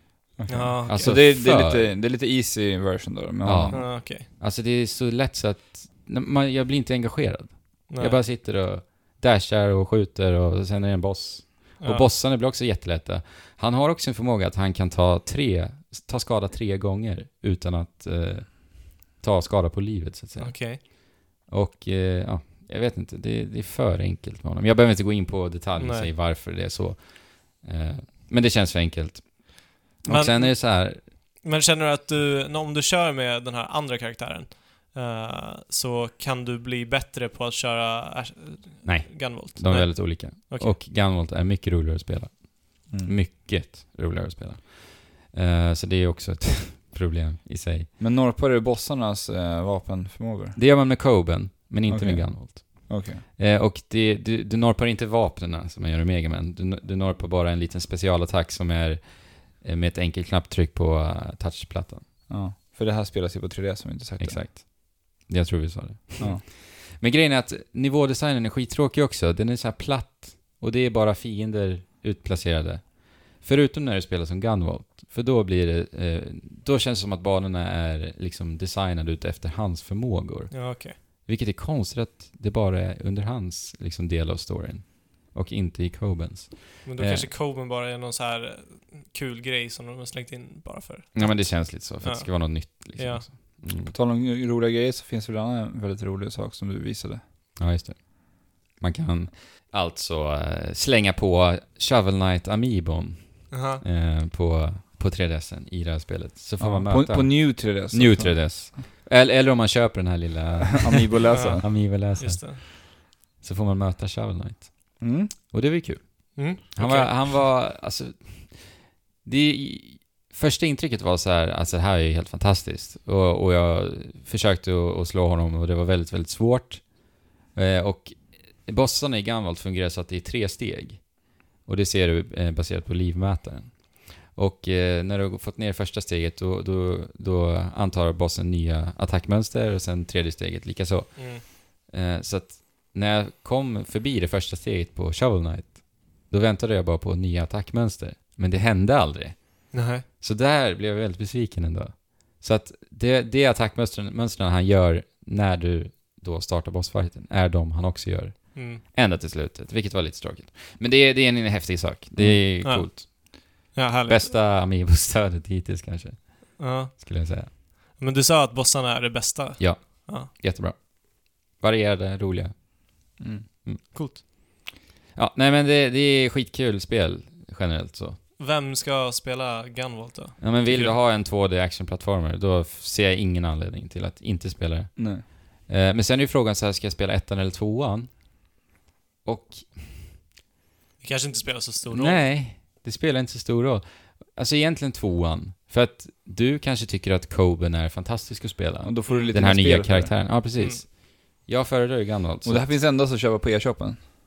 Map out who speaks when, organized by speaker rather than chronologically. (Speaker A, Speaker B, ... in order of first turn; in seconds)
Speaker A: 0.4-3.9, 42.9-43.1, 48.0-50.6, 51.9-53.2, 62.3-64.5, 93.8-97.2, 106.6-108.8, 110.8-111.8, 115.0-115.3, 162.2-162.5, 173.2-173.5, 185.0-185.2, 198.8-200.2, 202.4-204.0
Speaker B: 0.5-1.1, 3.7-4.3, 7.9-8.2, 11.8-12.1, 20.4-20.8, 25.8-26.1, 30.1-40.8, 80.5-81.0, 86.8-93.3, 103.5-103.8, 111.3-112.6, 116.3-117.3, 141.2-141.4, 149.7-150.1, 158.6-158.8, 162.6-164.3, 166.6-170.3, 173.9-174.2, 178.4-181.0, 191.0-192.3, 199.1-199.3, 200.6-200.8
Speaker C: 0.9-1.9, 3.4-31.1, 38.9-47.9, 50.6-62.1, 64.2-87.3, 91.1-94.0, 97.6-163.5, 164.1-167.5, 169.6-174.2, 175.2-178.2, 180.4-188.4, 189.2-190.0, 191.9-202.7